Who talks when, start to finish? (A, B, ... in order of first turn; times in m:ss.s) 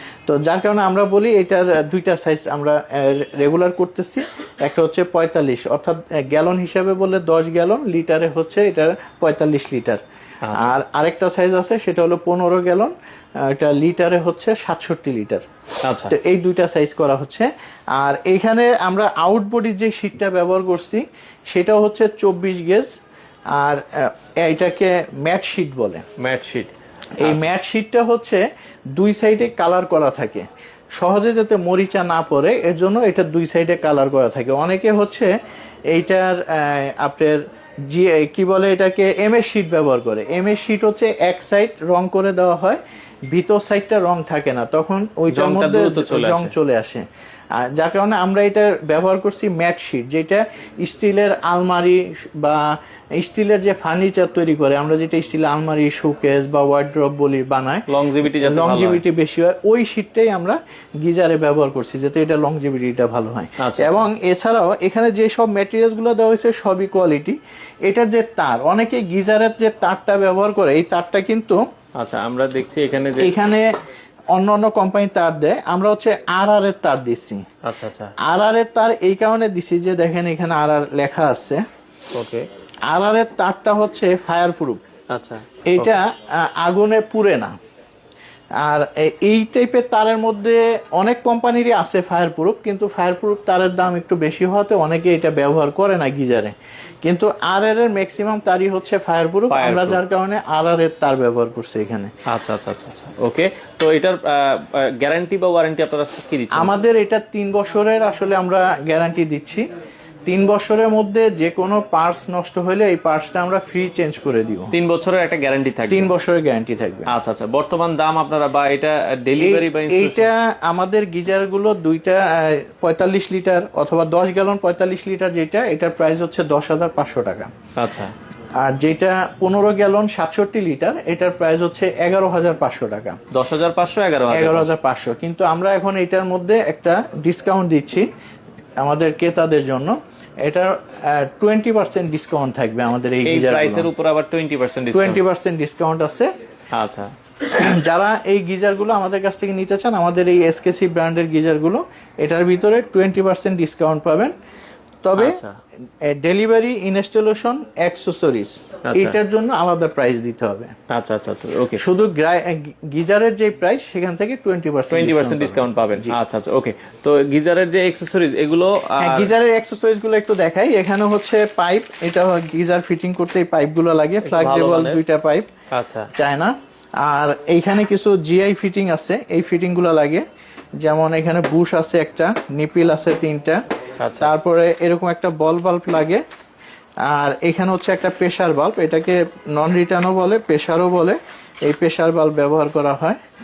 0:00.3-0:10.0 A
0:10.4-0:10.8 B
0:10.5-0:15.4 A
0:15.8-0:16.1 B
0:16.1-0:22.9 A
0:23.6-0:26.0 A
0:26.2-0:27.5 B
0:27.2-0:30.5 A
0:31.0-0:35.3 A
0:35.9-0:47.0 A
0:45.3-0:46.5 B
0:47.6-1:11.6 A
0:57.9-0:59.0 B
1:03.6-1:04.1 B
1:12.0-1:13.4 B
1:13.2-1:13.7 A
1:14.3-1:17.4 A
1:17.6-1:18.1 B
1:18.2-1:21.6 A
1:22.1-1:22.5 B
1:22.9-1:24.8 A
1:25.1-1:26.0 B
1:25.7-1:27.5 A
1:28.6-1:42.1 A
1:39.5-1:40.0 B
1:42.3-1:46.7 B
1:46.5-1:49.7 A
1:50.3-1:54.7 A
1:54.7-1:56.1 B
1:55.9-1:57.1 A
1:57.1-2:00.3 B
1:59.4-2:07.5 A
2:07.8-2:08.1 B
2:08.6-2:13.2 A
2:13.3-2:14.7 B
2:14.3-2:18.1 A
2:18.8-2:23.9 A
2:23.2-2:25.2 B
2:24.9-2:26.3 A
2:26.7-2:27.1 B
2:27.5-2:34.3 A
2:35.0-2:35.4 A
2:35.2-2:35.6 B
2:36.0-2:40.8 A
2:38.8-2:39.2 B
2:40.9-2:41.8 B
2:41.8-2:46.2 A
2:44.9-2:49.3 B
2:49.0-2:55.5 A
2:54.2-2:55.0 B
2:55.7-2:56.1 B
2:56.1-3:00.2 A
3:00.8-3:03.6 A
3:04.0-3:04.3 B
3:04.2-3:06.2 A
3:07.1-3:13.2 A